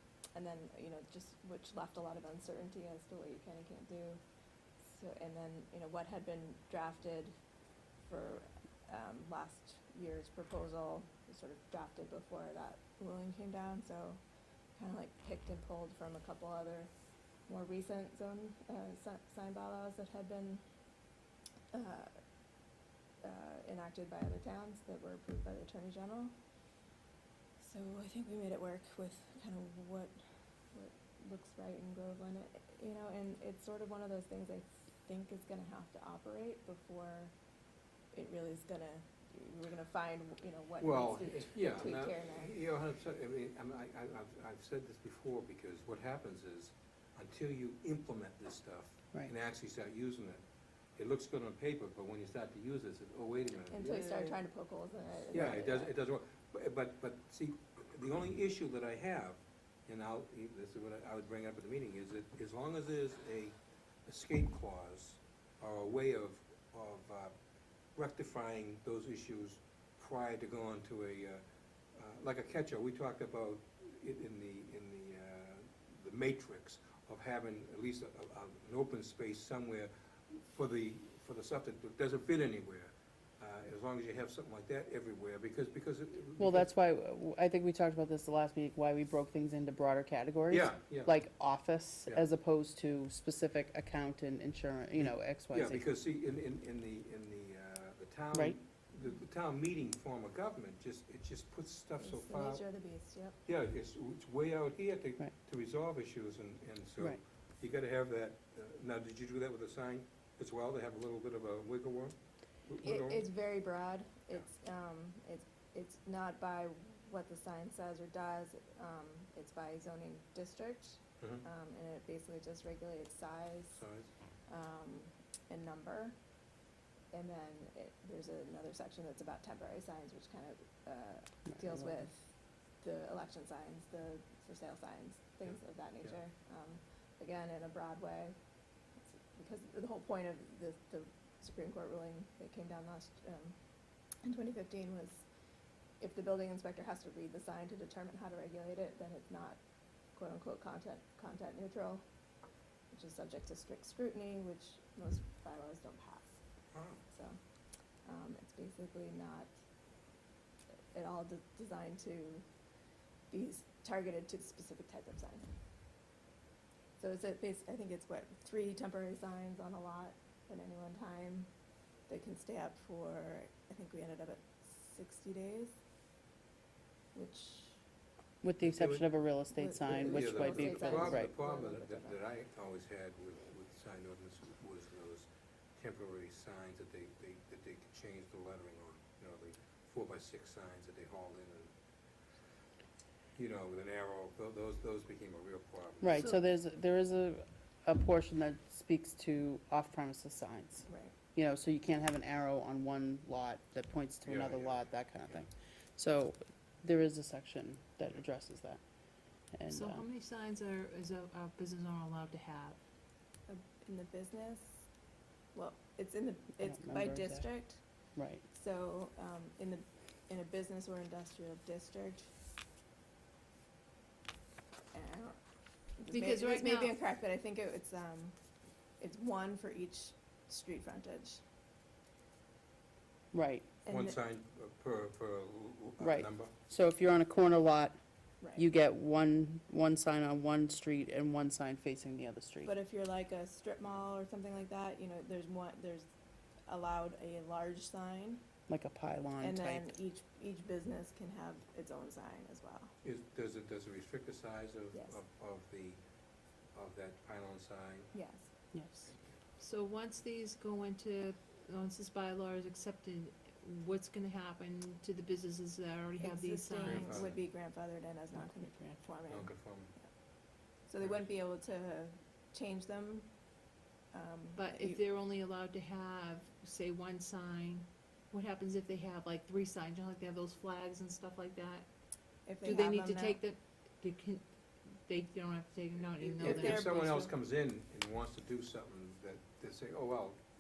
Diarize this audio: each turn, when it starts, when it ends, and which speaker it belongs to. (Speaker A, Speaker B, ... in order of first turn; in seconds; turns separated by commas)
Speaker A: 0.3-4.2, Speaker A: 4.8-7.3, Speaker A: 8.1-14.2, Speaker A: 14.8-16.9, Speaker A: 17.5-20.6, Speaker A: 21.7-22.1, Speaker A: 23.2-26.3, Speaker A: 27.6-30.2, Speaker A: 30.7-37.3, Speaker A: 38.1-42.5, Speaker B: 40.8-50.4, Speaker B: 51.0-54.4, Speaker A: 53.7-55.9, Speaker B: 55.3-63.5, Speaker B: 64.0-67.3, Speaker B: 67.9-71.4, Speaker B: 71.9-86.7, Speaker C: 86.4-95.8, Speaker B: 90.5-91.1, Speaker B: 95.0-102.6, Speaker A: 102.0-103.4, Speaker B: 103.5-113.3, Speaker A: 112.8-123.8, Speaker B: 121.2-121.4, Speaker B: 123.7-124.1, Speaker A: 124.5-126.2, Speaker A: 127.1-132.3, Speaker C: 131.5-131.9, Speaker A: 132.8-138.3, Speaker A: 139.0-143.6, Speaker A: 144.2-145.2, Speaker A: 146.0-149.6, Speaker A: 150.1-152.0, Speaker A: 152.9-156.4, Speaker B: 156.7-157.0, Speaker A: 157.1-157.4, Speaker A: 158.0-159.5, Speaker A: 160.9-162.4, Speaker A: 163.3-165.5, Speaker A: 167.0-171.5, Speaker A: 172.1-175.8, Speaker A: 177.1-177.8, Speaker C: 178.4-181.3, Speaker B: 178.6-179.1, Speaker A: 179.5-182.2, Speaker B: 179.8-191.7, Speaker B: 193.3-196.3, Speaker C: 196.0-208.8, Speaker A: 200.9-201.1, Speaker B: 204.2-204.8, Speaker C: 209.5-210.0, Speaker D: 209.7-212.8, Speaker A: 213.5-214.8, Speaker A: 215.5-217.8, Speaker C: 216.6-217.5, Speaker C: 218.2-218.4, Speaker A: 218.5-222.3, Speaker A: 224.9-225.4, Speaker A: 226.0-228.3, Speaker D: 226.1-226.9, Speaker A: 229.0-231.4, Speaker C: 233.3-233.7, Speaker A: 233.8-234.2, Speaker B: 233.9-236.5, Speaker C: 236.0-238.0, Speaker A: 238.4-238.7, Speaker C: 238.5-242.7, Speaker A: 242.6-246.1, Speaker A: 246.7-248.4, Speaker C: 248.7-249.8, Speaker A: 249.4-252.9, Speaker B: 253.0-256.0, Speaker A: 254.9-255.2, Speaker B: 256.7-258.1, Speaker A: 258.1-258.5, Speaker C: 258.7-259.0, Speaker D: 259.6-267.3, Speaker A: 266.2-270.1, Speaker B: 266.8-267.4, Speaker B: 269.3-269.9, Speaker A: 270.9-273.3, Speaker A: 274.1-275.0, Speaker D: 274.6-281.9, Speaker A: 282.4-283.4, Speaker D: 282.6-284.4, Speaker D: 285.0-287.3, Speaker B: 286.4-290.4, Speaker A: 286.4-287.0